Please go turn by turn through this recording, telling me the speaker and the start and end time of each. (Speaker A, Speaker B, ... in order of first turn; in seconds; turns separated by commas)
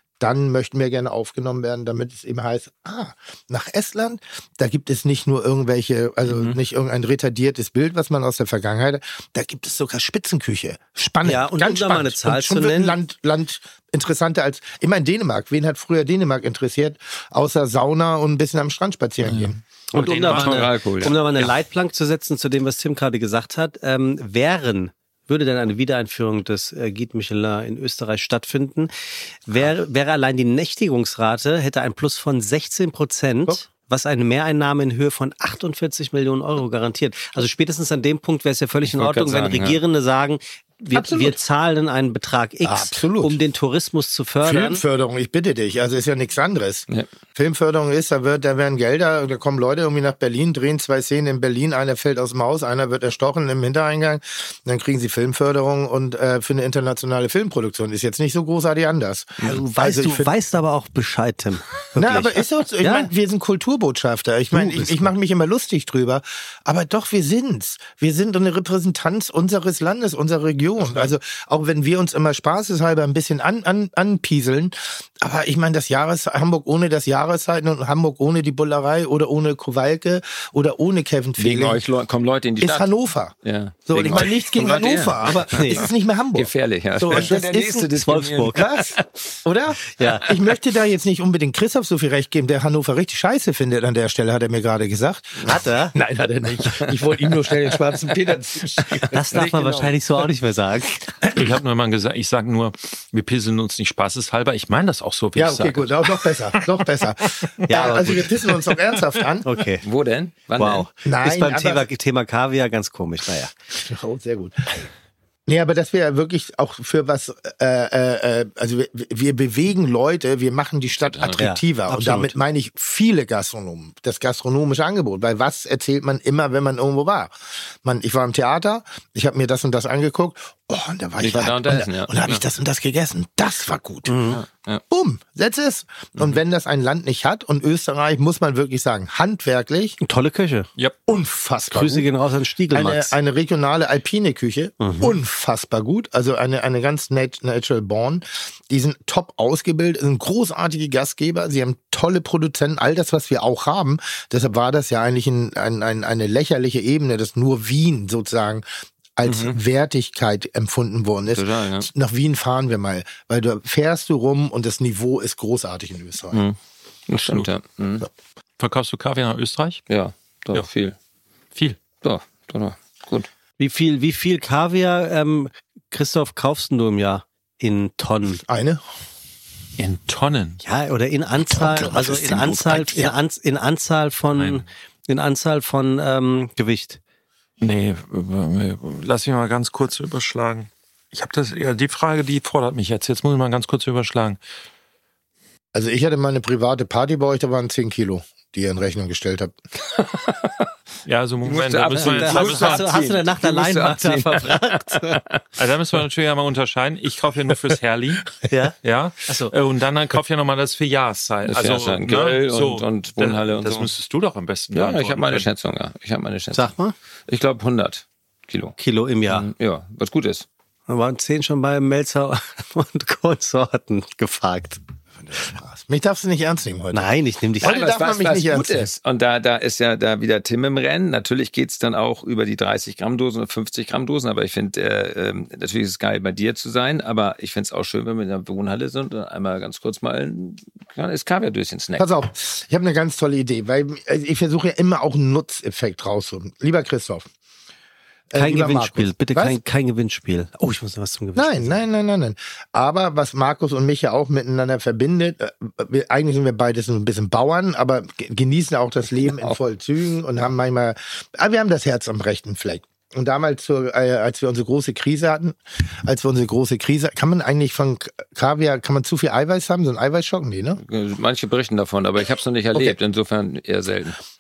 Speaker A: 0.2-19.6, Speaker B: 6.3-6.6, Speaker C: 11.2-13.0, Speaker C: 19.9-28.9, Speaker D: 19.9-20.7, Speaker B: 20.0-21.1, Speaker C: 29.5-44.8, Speaker B: 38.8-39.8, Speaker A: 40.9-41.4, Speaker A: 42.6-43.4, Speaker A: 44.4-60.3, Speaker C: 59.4-62.4, Speaker A: 62.0-81.8, Speaker B: 62.8-63.1, Speaker C: 64.5-65.1, Speaker B: 81.4-89.0, Speaker A: 82.6-83.4, Speaker A: 83.9-87.9, Speaker C: 85.5-85.9, Speaker C: 87.1-88.6, Speaker A: 88.5-99.9, Speaker C: 90.0-90.3, Speaker C: 95.4-96.0, Speaker B: 96.8-99.8, Speaker C: 99.1-100.9, Speaker D: 101.3-106.7, Speaker A: 105.3-109.5, Speaker C: 107.7-108.3, Speaker C: 109.4-109.8, Speaker B: 109.8-110.9, Speaker C: 110.6-113.5, Speaker A: 111.0-111.9, Speaker A: 113.8-114.9, Speaker A: 115.5-134.3, Speaker B: 121.0-121.4, Speaker C: 121.4-122.4, Speaker B: 131.2-132.4, Speaker C: 134.1-134.4, Speaker B: 134.3-134.8, Speaker A: 134.9-140.0, Speaker C: 140.0-140.7, Speaker A: 141.1-142.1, Speaker C: 141.7-143.2, Speaker A: 142.7-166.4, Speaker C: 144.8-145.2, Speaker B: 159.3-159.6, Speaker B: 161.3-161.9, Speaker B: 166.3-166.6, Speaker B: 167.1-168.1, Speaker D: 167.2-167.5, Speaker D: 168.6-169.8, Speaker B: 169.9-171.0, Speaker D: 171.6-171.8, Speaker B: 172.0-173.3, Speaker C: 173.6-178.4, Speaker A: 178.4-178.8, Speaker D: 179.8-180.6, Speaker C: 180.6-187.0, Speaker A: 181.5-183.1, Speaker D: 184.3-184.7, Speaker D: 187.6-194.4, Speaker A: 195.7-199.6, Speaker B: 199.9-200.7, Speaker D: 201.1-202.9, Speaker B: 201.4-205.4, Speaker C: 202.0-205.2, Speaker D: 205.6-215.5, Speaker C: 208.5-209.5, Speaker B: 211.5-213.9, Speaker B: 214.7-216.7, Speaker C: 216.5-216.9, Speaker B: 217.3-218.8, Speaker C: 218.8-219.5, Speaker B: 219.3-220.5, Speaker C: 220.9-224.8, Speaker A: 225.2-227.1, Speaker C: 226.9-227.7, Speaker A: 227.6-228.9, Speaker B: 227.6-242.1, Speaker A: 242.0-247.3, Speaker A: 248.3-249.6, Speaker C: 248.3-251.8, Speaker A: 251.3-270.8, Speaker B: 259.3-259.6, Speaker B: 270.8-274.2